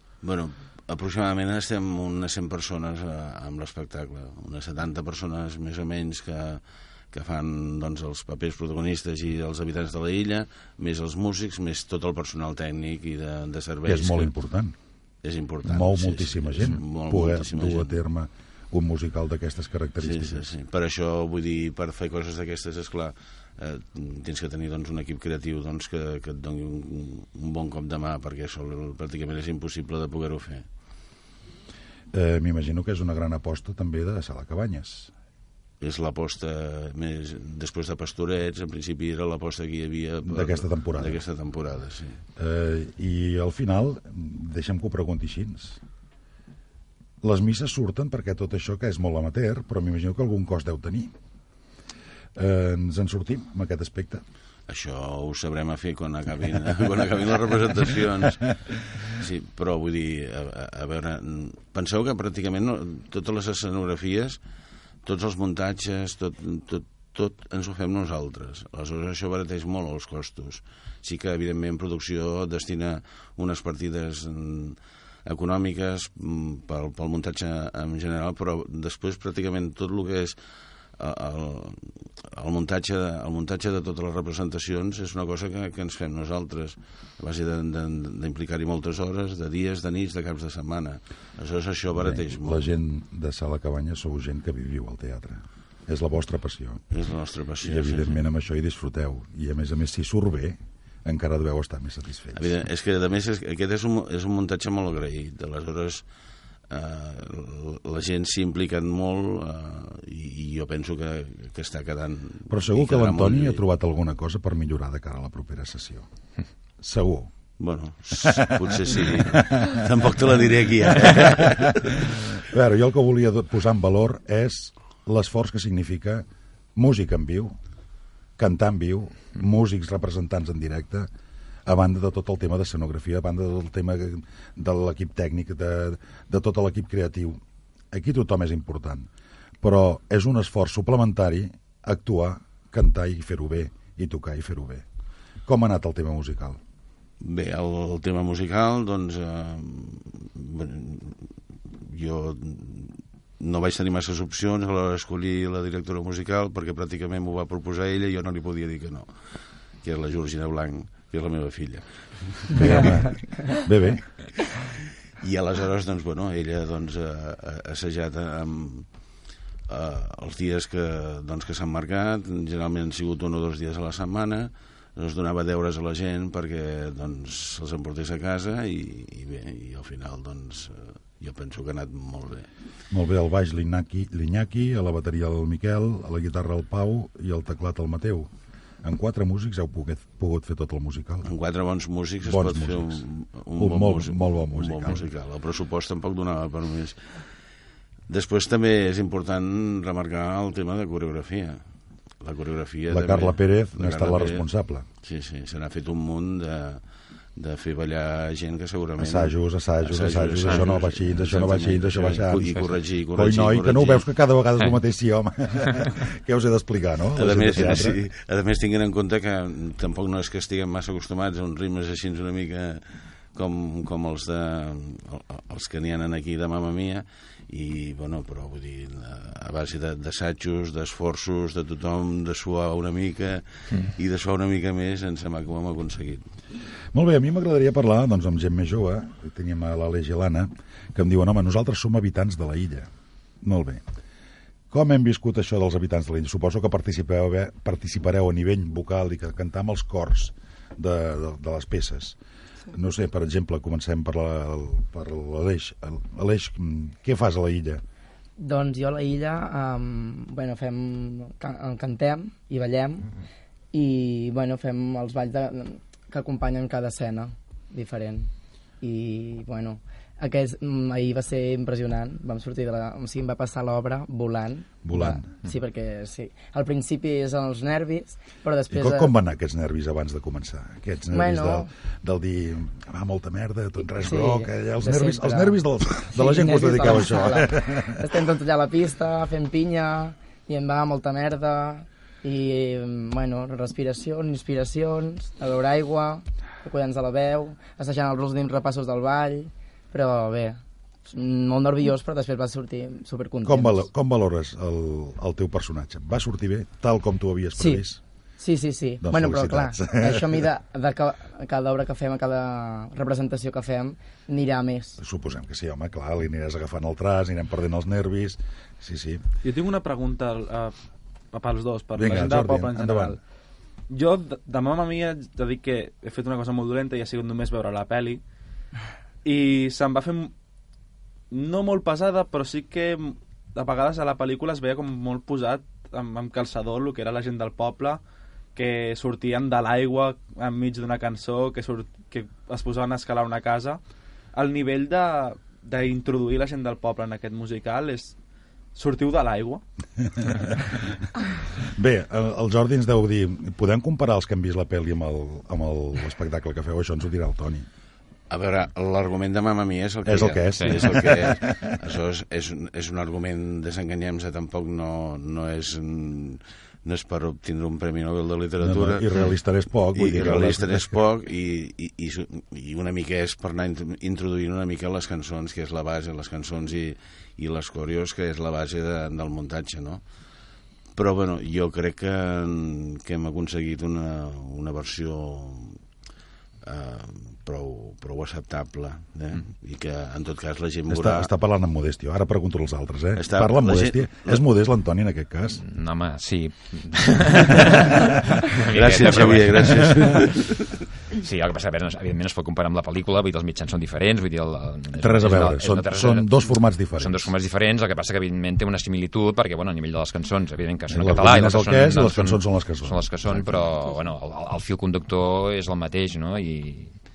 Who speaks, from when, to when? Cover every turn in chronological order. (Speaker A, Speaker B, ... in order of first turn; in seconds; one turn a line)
Speaker A: 0.2-14.3
Speaker B: 13.9-14.7
Speaker A: 15.2-17.9
Speaker B: 15.6-20.4
Speaker A: 20.0-30.7
Speaker B: 32.1-35.1
Speaker A: 35.8-42.2
Speaker B: 40.2-41.2
Speaker B: 42.4-45.8
Speaker B: 47.2-51.1
Speaker B: 52.4-54.2
Speaker A: 54.7-64.4
Speaker A: 65.0-80.3
Speaker A: 81.0-92.7
Speaker B: 92.0-96.8
Speaker A: 96.9-98.2
Speaker B: 97.6-102.5
Speaker A: 102.3-106.0
Speaker A: 106.7-113.6
Speaker B: 112.5-116.1
Speaker B: 116.8-117.3
Speaker A: 117.6-122.1
Speaker B: 118.2-119.8
Speaker B: 120.8-127.5
Speaker B: 128.4-131.1
Speaker B: 131.7-137.4
Speaker B: 137.9-139.1
Speaker B: 139.6-144.8
Speaker B: 145.4-146.6
Speaker A: 147.2-151.3
Speaker A: 151.8-159.1
Speaker A: 159.8-163.0
Speaker B: 162.5-164.0
Speaker A: 165.2-168.9
Speaker A: 169.7-182.5
Speaker B: 182.9-188.3
Speaker B: 188.8-191.3
Speaker A: 191.2-197.2
Speaker B: 192.2-193.0
Speaker B: 193.6-195.1
Speaker A: 198.1-201.6
Speaker A: 202.2-204.4
Speaker B: 202.9-204.8
Speaker A: 205.0-206.8
Speaker A: 207.3-214.0
Speaker B: 209.0-217.9
Speaker A: 217.2-236.3
Speaker B: 236.9-242.9
Speaker B: 243.4-243.8
Speaker B: 244.7-252.2
Speaker B: 252.7-257.8
Speaker C: 258.4-263.2
Speaker C: 263.7-268.3
Speaker C: 268.8-279.1
Speaker B: 274.8-275.3
Speaker B: 278.7-288.0
Speaker C: 281.1-281.7
Speaker C: 283.8-303.9
Speaker B: 303.4-308.0
Speaker C: 307.5-307.8
Speaker C: 308.4-315.0
Speaker B: 309.0-310.4
Speaker B: 315.0-319.2
Speaker D: 319.4-320.7
Speaker D: 321.3-323.2
Speaker B: 321.9-323.2
Speaker D: 323.9-328.2
Speaker D: 329.2-330.3
Speaker D: 331.3-338.0
Speaker D: 338.5-343.8
Speaker D: 344.3-348.1
Speaker D: 348.7-349.6
Speaker B: 351.6-357.6
Speaker A: 358.3-369.3
Speaker B: 360.0-361.8
Speaker E: 360.1-360.9
Speaker B: 368.6-371.0
Speaker A: 369.9-380.0
Speaker A: 380.9-385.8
Speaker A: 386.6-391.3
Speaker B: 390.9-395.6
Speaker A: 393.2-394.4
Speaker E: 395.6-400.2
Speaker A: 398.7-400.7
Speaker B: 399.0-400.2
Speaker E: 401.2-417.0
Speaker B: 405.0-407.3
Speaker B: 410.9-413.1